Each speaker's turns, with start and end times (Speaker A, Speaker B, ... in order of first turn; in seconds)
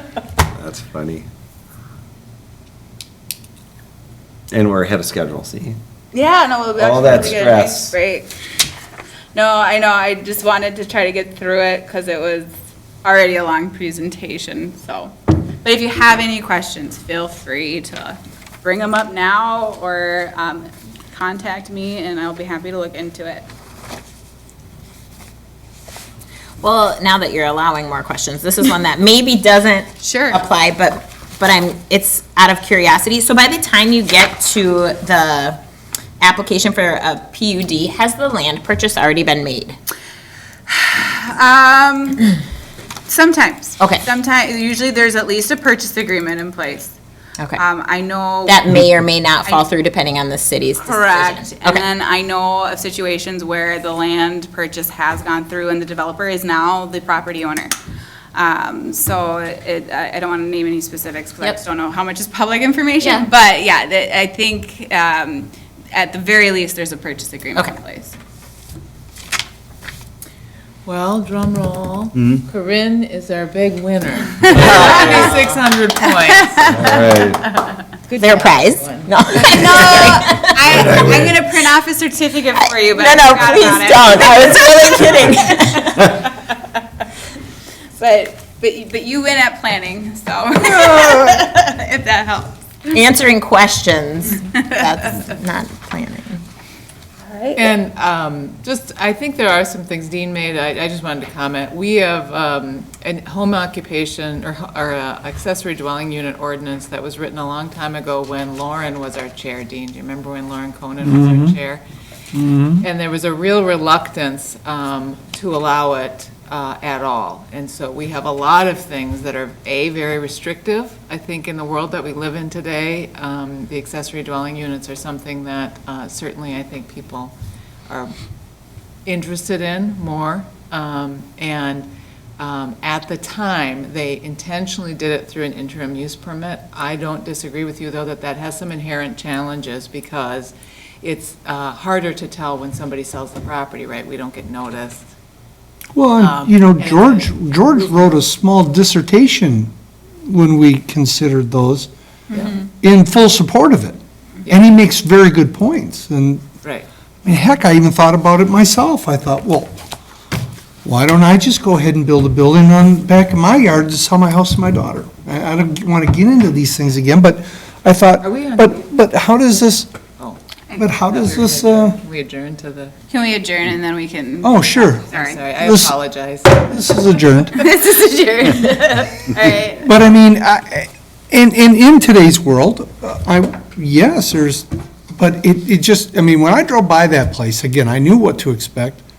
Speaker A: 0.6-1.2, 4.5-5.8, 6.8-8.0, 76.7-77.4, 80.7-81.4
Speaker B: 6.1-8.3, 9.3-12.5, 13.0-23.4, 30.0-30.4, 40.7-42.3, 43.1-47.0, 47.5-48.6, 50.8-57.7, 58.3-68.2, 74.4-75.4, 76.4-77.0, 79.4-86.5, 88.0-92.5, 97.2-97.7, 173.1-175.4, 177.5-179.9
Speaker C: 26.6-35.6, 36.2-39.8, 48.5-51.9, 63.0-63.2, 74.6-75.3, 78.2-80.8, 82.9-86.0, 92.9-96.4
Speaker D: 70.8-77.3, 78.0-79.9, 97.5-111.8, 112.8-127.3, 127.9-128.1, 129.1-145.1, 146.2-147.3, 152.3-152.6, 156.6-156.9, 168.2-168.8, 171.0-172.9, 175.1-177.0
Speaker E: 111.0-111.5, 112.3-112.9, 145.9-149.7, 150.2-151.9, 152.6-156.5, 157.2-159.8, 160.8-169.9, 170.8-172.0, 174.4-175.9, 176.6-177.5, 179.7-189.0